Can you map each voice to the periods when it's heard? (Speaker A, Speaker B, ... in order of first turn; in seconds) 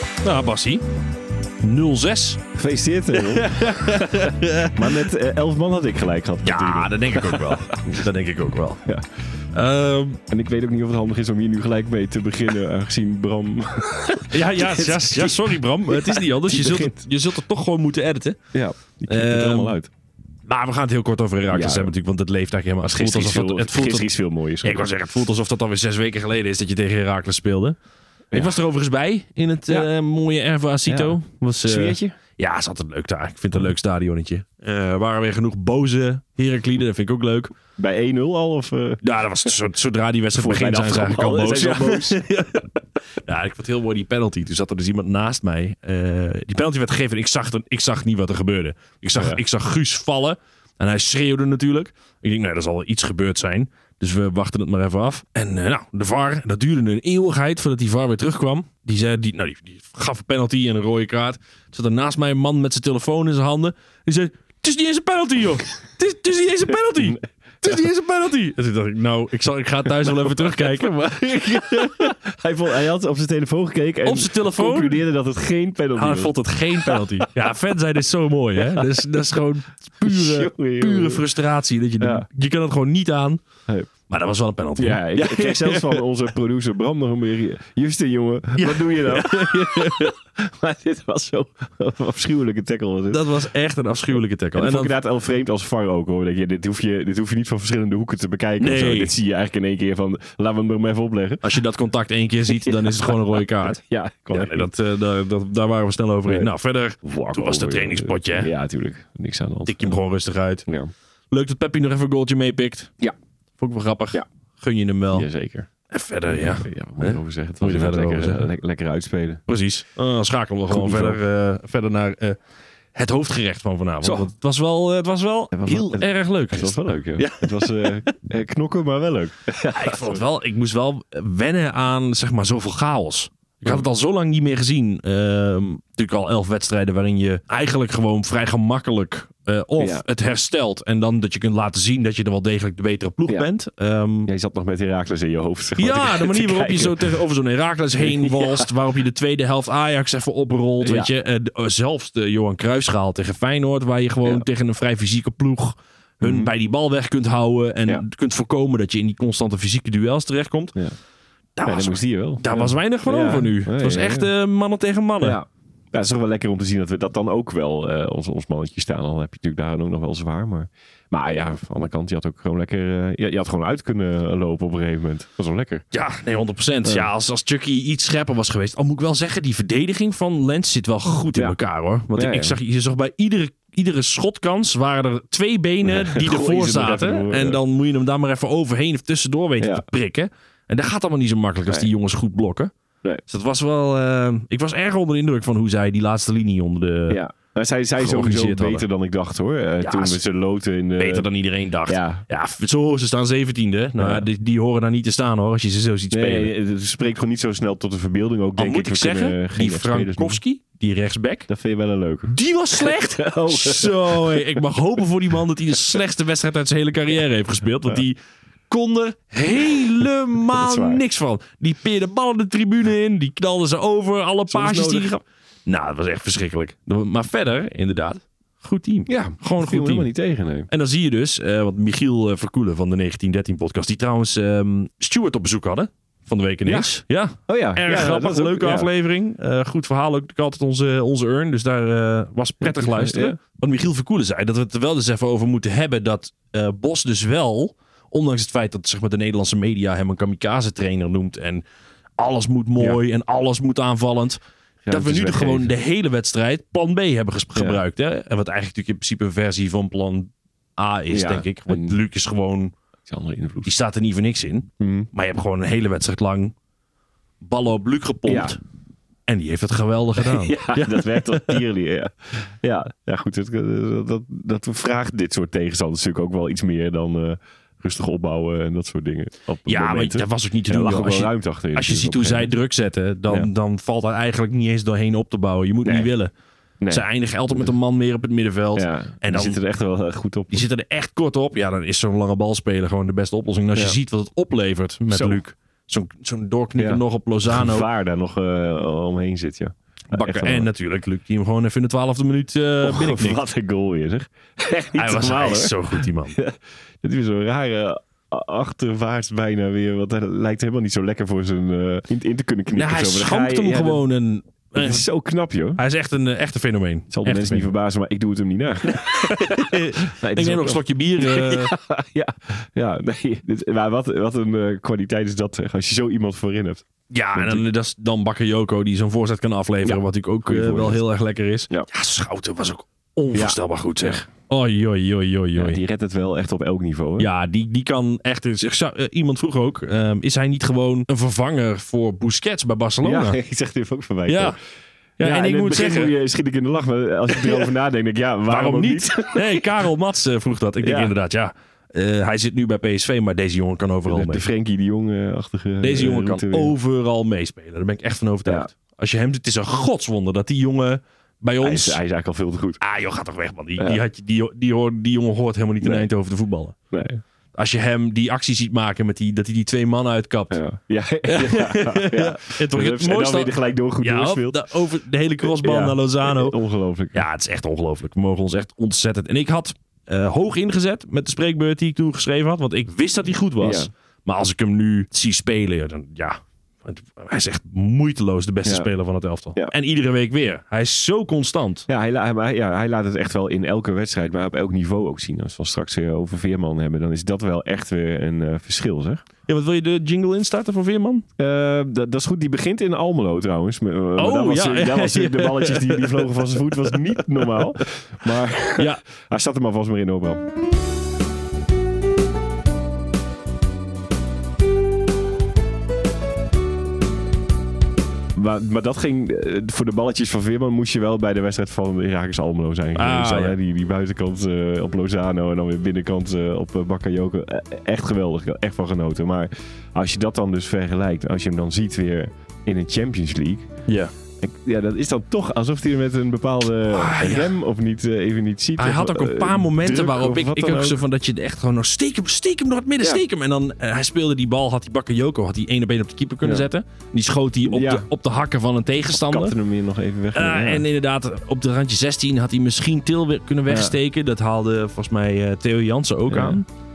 Speaker A: 0.2-0.8, 1.6-2.4, 3.3-5.0, 6.4-8.8, 9.5-10.2, 14.3-18.4, 19.1-19.7, 20.5-24.1, 24.6-27.8, 28.3-37.5, 39.0-72.1, 74.0-75.0, 75.9-83.4, 84.1-86.0, 88.6-90.1, 93.1-94.9, 98.6-99.1, 101.4-103.8, 104.3-108.5, 109.6-110.7, 111.3-112.9, 113.6-115.3, 115.9-118.5, 119.5-122.4, 122.9-128.1, 129.7-144.3, 145.8-160.7, 161.6-165.4, 175.9-192.7, 193.2-197.2, 198.0-198.8, 199.8-200.2, 201.0-206.5, 208.6-211.5, 212.3-218.2, 218.7-230.1, 230.7-251.6, 252.2-262.7, 263.6-266.5, 267.4-268.6, 269.3-271.6, 279.7-286.3, 286.9-289.6, 290.5-297.9, 300.1-303.4, 304.9-306.4, 312.7-315.0, 315.8-317.7, 318.9-321.7, 327.1-335.8, 337.2-343.4, 344.3-344.6, 345.2-346.1, 347.3-347.7, 348.5-354.5, 355.8-362.0, 362.8-366.8, 367.5-370.6, 371.2-376.5, 377.1-391.9, 399.5-401.2, 404.2-407.0, 408.8-409.0, 422.9-423.5, 433.9-434.1, 436.9-437.5, 438.8-449.5, 450.3-456.7
Speaker B: 2.5-8.0, 10.3-16.9, 18.5-19.9, 21.5-21.9, 22.8-24.9, 28.3-28.6, 30.9-32.1, 37.7-39.5, 40.3-42.2, 49.1-49.4, 66.9-67.8, 71.3-77.2, 78.6-78.8, 80.0-81.2, 82.0-82.3, 84.8-93.3, 94.5-101.4, 102.5-104.7, 107.0-109.9, 115.1-115.7, 116.3-119.4, 120.7-121.2, 124.0-124.3, 125.5-130.2, 139.8-140.0, 144.3-147.2, 148.0-148.7, 150.8-151.1, 156.2-156.5, 161.6-164.3, 165.2-175.8, 182.1-182.6, 185.8-187.6, 197.1-201.3, 201.9-202.2, 204.0-204.3, 206.1-210.4, 211.5-214.6, 220.5-221.0, 224.5-225.1, 229.1-230.7, 236.6-238.9, 242.6-243.4, 254.8-255.7, 257.5-257.8, 261.1-262.0, 263.1-263.7, 264.8-265.1, 268.2-268.6, 270.2-282.5, 286.8-287.7, 288.7-290.6, 295.1-295.4, 296.8-300.7, 302.8-314.0, 314.7-315.8, 317.1-327.6, 329.8-331.0, 333.3-334.2, 335.5-337.3, 343.0-344.6, 345.2-349.7, 350.8-351.1, 354.1-356.7, 358.4-358.7, 361.6-362.8, 365.8-366.1, 366.9-367.2, 370.5-374.7, 375.4-377.2, 383.6-383.9, 391.9-399.2, 401.4-410.5, 418.3-433.7, 434.4-441.0, 446.4-446.7, 447.6-448.1, 449.1-450.9, 453.7-453.9, 456.3-456.6